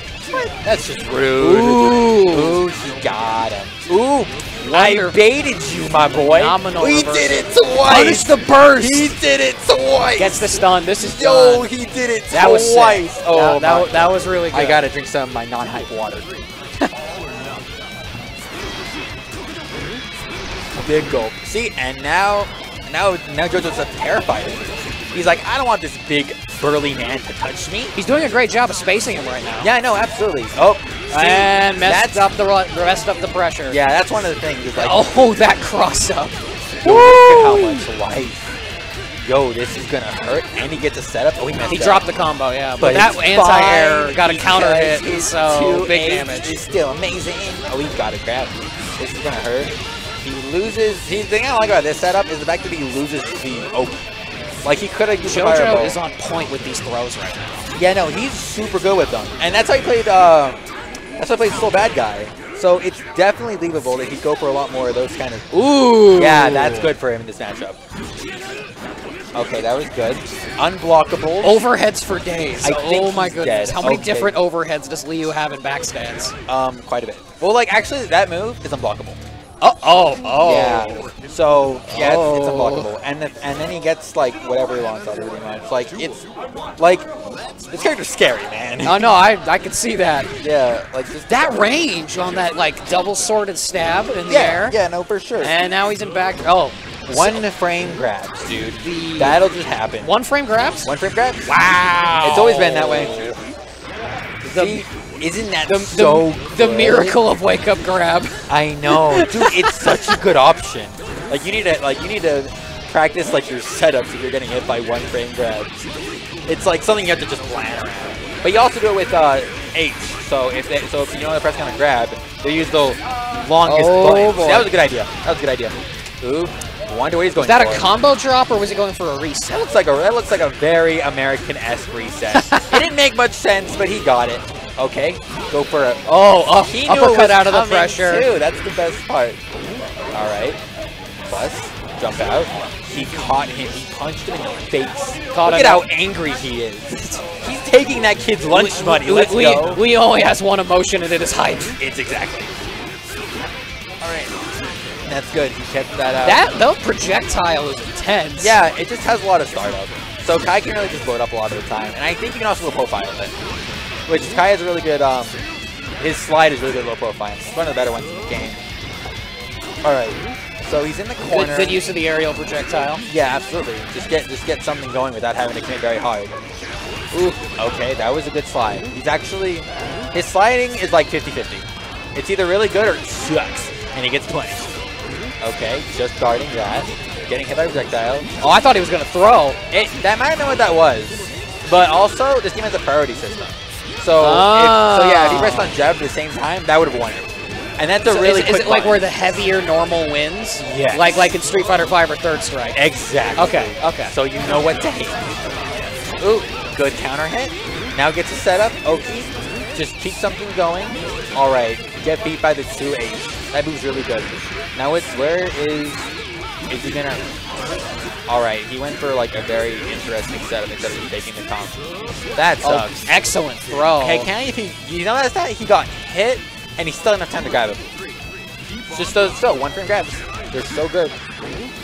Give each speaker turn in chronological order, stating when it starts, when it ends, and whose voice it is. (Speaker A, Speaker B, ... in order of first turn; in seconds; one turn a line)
Speaker A: 0.2-10.6
Speaker B: 1.4-2.6
Speaker B: 4.6-5.2
Speaker B: 6.2-9.1
Speaker B: 10.2-11.7
Speaker A: 11.2-16.3
Speaker B: 12.3-14.8
Speaker A: 20.8-27.9
Speaker B: 27.9-29.7
Speaker A: 29.6-32.2
Speaker B: 31.1-33.8
Speaker A: 33.7-35.1
Speaker B: 34.8-37.8
Speaker A: 36.8-38.6
Speaker A: 39.2-42.0
Speaker B: 41.6-46.6
Speaker A: 42.8-54.0
Speaker A: 54.6-56.0
Speaker B: 55.2-57.7
Speaker A: 57.8-60.6
Speaker A: 61.2-65.5
Speaker B: 65.5-66.9
Speaker A: 66.1-67.8
Speaker A: 69.3-71.6
Speaker B: 71.4-76.3
Speaker A: 72.6-74.4
Speaker A: 76.5-79.2
Speaker B: 79.6-81.1
Speaker A: 80.4-86.3
Speaker B: 81.9-82.9
Speaker A: 86.8-87.1
Speaker A: 87.7-89.1
Speaker B: 88.8-90.3
Speaker A: 90.4-91.7
Speaker B: 91.3-94.8
Speaker A: 94.3-95.5
Speaker B: 95.4-97.4
Speaker A: 97.1-100.1
Speaker B: 98.8-99.4
Speaker B: 100.0-100.9
Speaker A: 100.8-101.5
Speaker B: 101.5-103.4
Speaker A: 102.2-103.3
Speaker A: 104.4-107.2
Speaker B: 104.5-104.8
Speaker B: 105.6-109.7
Speaker A: 108.5-115.7
Speaker A: 116.5-127.9
Speaker B: 123.6-124.7
Speaker B: 127.4-129.6
Speaker A: 129.5-136.0
Speaker B: 132.3-132.8
Speaker B: 136.1-138.3
Speaker A: 136.5-139.4
Speaker A: 140.1-140.6
Speaker A: 141.3-149.8
Speaker B: 145.3-145.8
Speaker B: 148.5-151.8
Speaker A: 151.8-152.5
Speaker A: 154.0-154.3
Speaker A: 155.1-156.4
Speaker B: 156.2-158.6
Speaker A: 158.4-163.3
Speaker A: 164.1-165.4
Speaker A: 166.0-168.6
Speaker A: 169.8-171.8
Speaker B: 171.3-173.1
Speaker A: 173.1-176.3
Speaker B: 177.1-177.4
Speaker A: 177.6-184.7
Speaker A: 185.4-188.3
Speaker B: 188.4-189.6
Speaker A: 189.7-199.0
Speaker B: 194.2-195.8
Speaker B: 198.0-202.8
Speaker A: 200.6-201.3
Speaker A: 202.7-205.3
Speaker B: 203.4-204.1
Speaker A: 206.2-216.1
Speaker A: 216.7-217.3
Speaker A: 218.3-221.8
Speaker A: 222.4-223.1
Speaker B: 222.6-224.3
Speaker A: 224.0-227.9
Speaker A: 228.9-231.2